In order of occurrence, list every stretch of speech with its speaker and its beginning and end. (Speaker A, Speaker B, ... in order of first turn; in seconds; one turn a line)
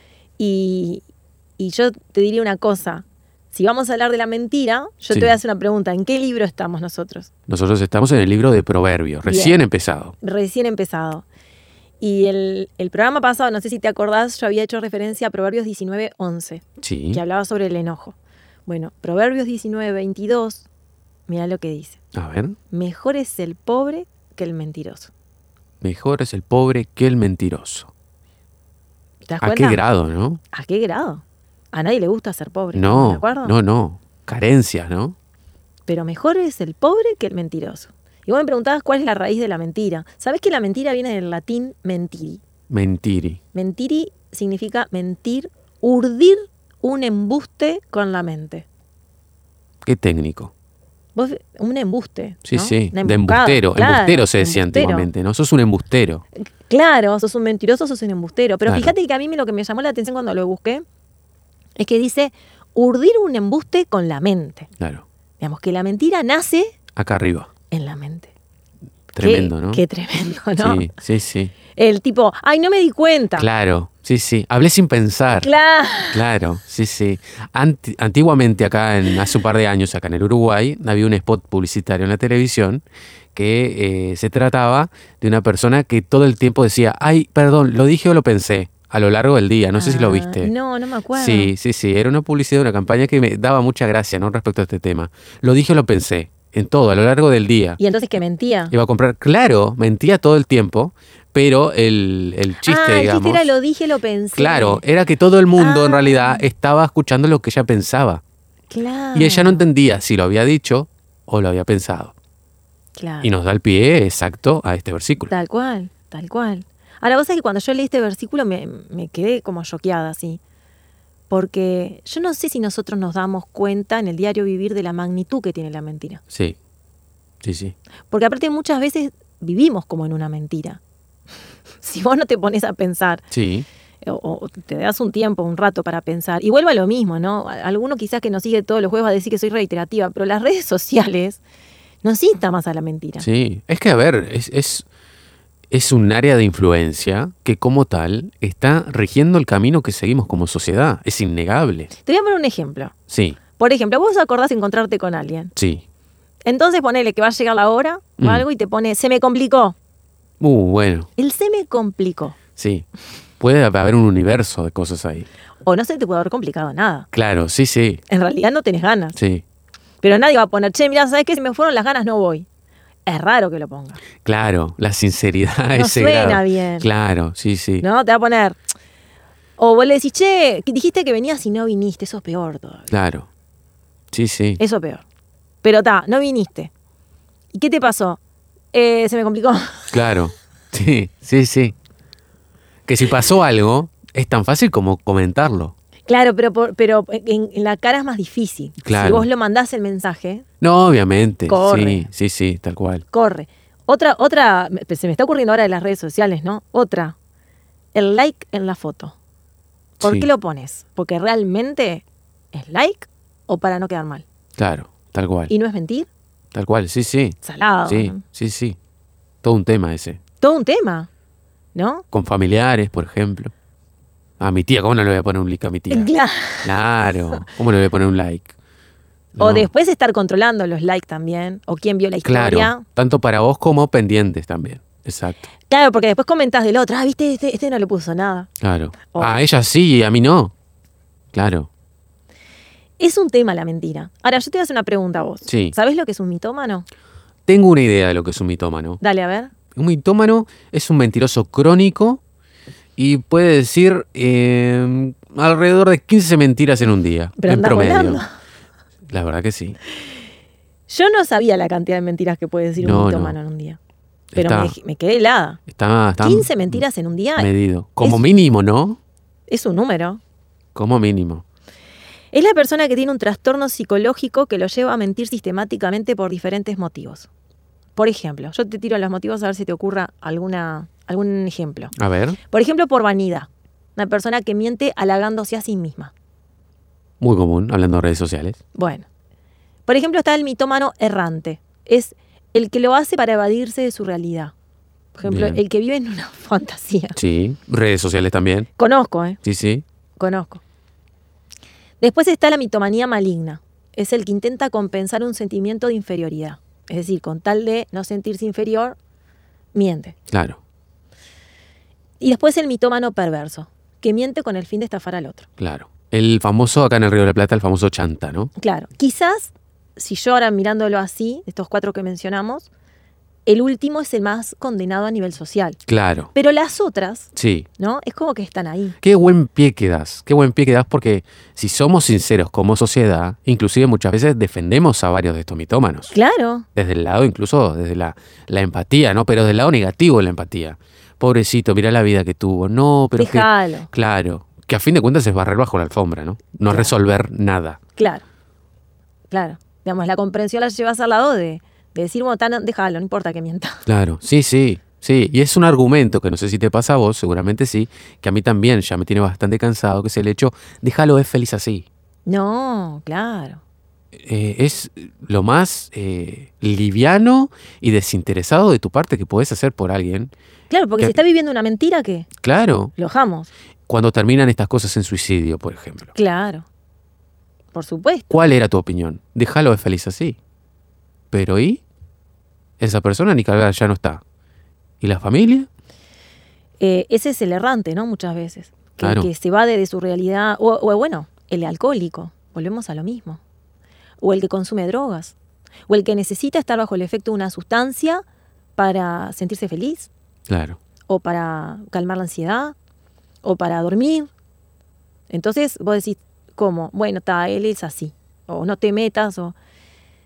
Speaker A: 0.4-1.0
Speaker A: 1.6-7.3
Speaker B: 7.5-10.1
Speaker A: 9.2-9.6
Speaker A: 10.2-11.2
Speaker A: 12.0-20.6
Speaker B: 16.8-17.2
Speaker A: 21.3-22.0
Speaker B: 22.1-22.6
Speaker A: 22.7-25.1
Speaker B: 25.8-27.9
Speaker A: 29.2-29.8
Speaker B: 29.4-30.4
Speaker A: 30.5-33.5
Speaker B: 32.7-35.1
Speaker A: 35.9-42.4
Speaker B: 42.7-43.4
Speaker A: 43.5-48.6
Speaker B: 49.8-50.5
Speaker A: 51.1-55.1
Speaker B: 52.4-56.2
Speaker A: 56.4-60.8
Speaker B: 58.7-58.9
Speaker A: 61.8-64.7
Speaker B: 64.8-65.0
Speaker A: 65.4-66.7
Speaker B: 67.0-67.5
Speaker A: 67.7-68.3
Speaker B: 69.1-69.8
Speaker A: 69.2-70.9
Speaker B: 70.6-71.5
Speaker A: 71.8-73.5
Speaker B: 73.4-75.5
Speaker A: 75.4-76.2
Speaker B: 76.1-82.8
Speaker B: 83.3-90.5
Speaker A: 89.8-91.5
Speaker B: 91.1-97.8
Speaker A: 97.8-98.7
Speaker B: 98.7-103.5
Speaker A: 102.6-104.8
Speaker B: 104.3-108.2
Speaker A: 105.6-106.4
Speaker A: 108.7-109.6
Speaker B: 109.1-112.1
Speaker A: 113.0-113.3
Speaker B: 113.2-115.3
Speaker A: 115.3-120.4
Speaker A: 121.3-126.2
Speaker B: 126.3-126.6
Speaker B: 127.4-127.7
Speaker A: 128.1-130.8
Speaker A: 131.8-133.2
Speaker B: 133.3-133.7
Speaker A: 134.0-141.4
Speaker A: 142.0-143.3
Speaker B: 143.2-144.8
Speaker B: 145.7-151.9
Speaker A: 152.0-152.9
Speaker B: 153.1-153.4
Speaker A: 153.6-155.5
Speaker B: 155.6-155.8
Speaker A: 156.4-159.8
Speaker B: 158.2-158.4
Speaker B: 160.4-161.1
Speaker A: 161.2-162.4
Speaker B: 162.6-162.8
Speaker B: 163.4-165.3
Speaker A: 165.6-167.1
Speaker B: 167.1-168.0
Speaker A: 168.1-169.2
Speaker B: 169.2-169.4
Speaker A: 170.0-172.4
Speaker A: 173.1-174.0
Speaker B: 174.2-177.8
Speaker A: 175.7-176.9
Speaker A: 177.8-178.6
Speaker A: 179.6-182.9
Speaker B: 182.9-183.3
Speaker B: 184.1-184.6
Speaker A: 184.6-185.0
Speaker A: 185.6-186.7
Speaker A: 187.5-188.2
Speaker A: 188.7-189.9
Speaker B: 189.9-191.8
Speaker B: 192.8-195.7
Speaker A: 196.1-200.4
Speaker B: 198.8-199.3
Speaker B: 200.6-203.0
Speaker A: 201.5-202.1
Speaker A: 203.1-207.1
Speaker A: 207.9-209.1
Speaker A: 210.0-214.2
Speaker B: 210.0-210.3
Speaker B: 214.6-215.5
Speaker A: 215.5-216.1
Speaker B: 216.5-218.8
Speaker A: 217.4-218.2
Speaker B: 219.4-220.2
Speaker A: 220.4-221.1
Speaker A: 221.7-222.0
Speaker B: 222.1-223.5
Speaker B: 224.4-226.1
Speaker A: 225.9-226.7
Speaker B: 226.6-228.5
Speaker B: 229.3-229.7
Speaker A: 229.4-232.8
Speaker B: 232.2-235.5
Speaker A: 235.7-238.5
Speaker B: 238.6-240.5
Speaker A: 239.1-239.3
Speaker B: 241.3-241.7
Speaker A: 243.0-246.8
Speaker B: 245.4-245.8
Speaker B: 247.4-249.0
Speaker A: 249.0-249.5
Speaker B: 249.7-252.2
Speaker B: 253.0-258.2
Speaker A: 257.4-258.3
Speaker B: 259.1-259.8
Speaker A: 260.9-263.8
Speaker B: 262.8-263.4
Speaker B: 264.3-264.8
Speaker A: 264.4-265.6
Speaker B: 265.7-266.8
Speaker A: 266.2-267.5
Speaker B: 267.4-269.0
Speaker A: 269.5-270.2
Speaker B: 270.7-271.4
Speaker A: 272.3-277.3
Speaker A: 277.9-281.9
Speaker B: 281.9-282.4
Speaker A: 282.5-286.1
Speaker B: 287.2-288.6
Speaker A: 288.7-289.1
Speaker A: 289.9-294.5
Speaker A: 295.1-297.2
Speaker B: 295.2-295.6
Speaker B: 297.1-298.7
Speaker A: 298.8-299.4
Speaker B: 299.4-299.8
Speaker A: 300.2-300.6
Speaker A: 302.0-309.0
Speaker A: 309.7-310.1
Speaker B: 310.3-310.6
Speaker A: 312.2-315.5
Speaker B: 315.6-318.5
Speaker A: 318.6-322.7
Speaker A: 323.4-325.8
Speaker B: 325.9-326.3
Speaker A: 326.3-328.9
Speaker B: 327.3-327.7
Speaker B: 329.0-336.1
Speaker A: 336.1-336.6
Speaker B: 336.7-347.8
Speaker A: 343.1-343.9
Speaker A: 346.7-346.9
Speaker A: 348.0-348.2
Speaker A: 349.3-353.8
Speaker B: 353.9-361.9
Speaker A: 362.2-363.6
Speaker B: 364.2-370.3
Speaker A: 370.7-372.3
Speaker B: 372.4-372.9
Speaker A: 372.9-373.5
Speaker B: 373.9-376.1
Speaker A: 376.1-376.6
Speaker A: 377.7-378.3
Speaker B: 378.3-380.4
Speaker B: 381.3-381.8
Speaker B: 382.8-384.2
Speaker B: 385.0-385.7
Speaker A: 386.8-393.4
Speaker B: 389.0-389.3
Speaker A: 394.2-395.4
Speaker A: 395.9-398.2
Speaker A: 398.8-400.1
Speaker B: 400.5-400.8
Speaker A: 401.1-402.7
Speaker A: 403.4-404.3
Speaker A: 405.3-409.5